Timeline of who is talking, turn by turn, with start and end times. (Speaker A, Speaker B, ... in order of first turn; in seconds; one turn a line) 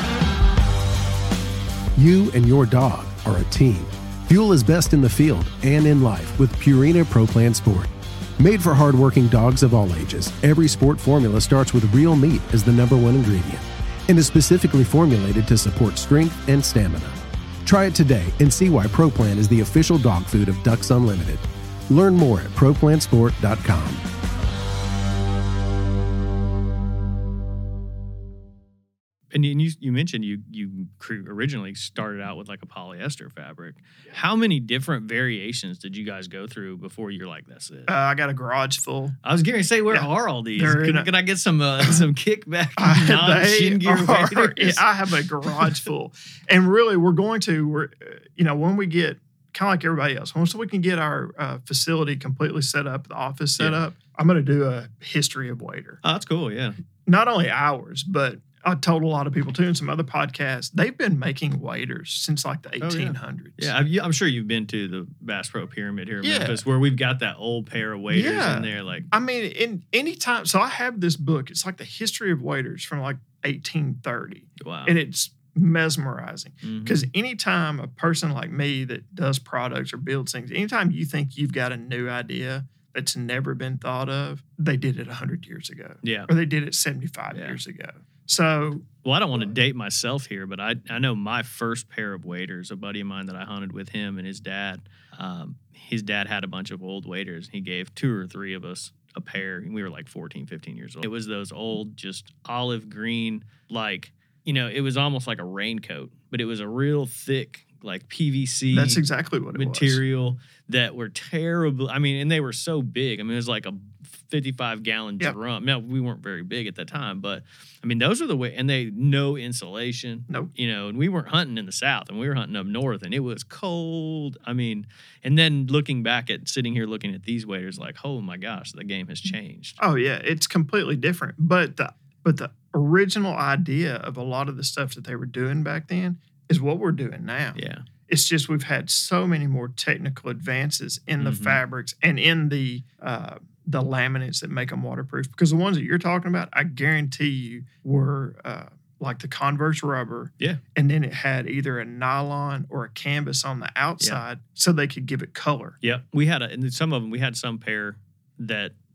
Speaker A: 2.0-24.0
Speaker B: 29.3-37.9
Speaker C: 37.9-39.2
Speaker B: 39.2-44.9
Speaker C: 39.9-41.1
Speaker C: 42.8-56.0
Speaker B: 45.4-45.8
Speaker B: 56.0-56.8
Speaker C: 57.1-63.7
Speaker B: 62.8-69.1
Speaker C: 66.2-66.6
Speaker C: 68.1-89.5
Speaker B: 74.6-74.9
Speaker B: 76.6-77.1
Speaker B: 86.0-86.3
Speaker B: 87.3-87.6
Speaker B: 89.0-109.0
Speaker C: 108.7-110.0
Speaker B: 109.5-129.8
Speaker C: 129.8-155.8
Speaker B: 137.6-137.8
Speaker B: 141.2-141.6
Speaker B: 155.8-158.7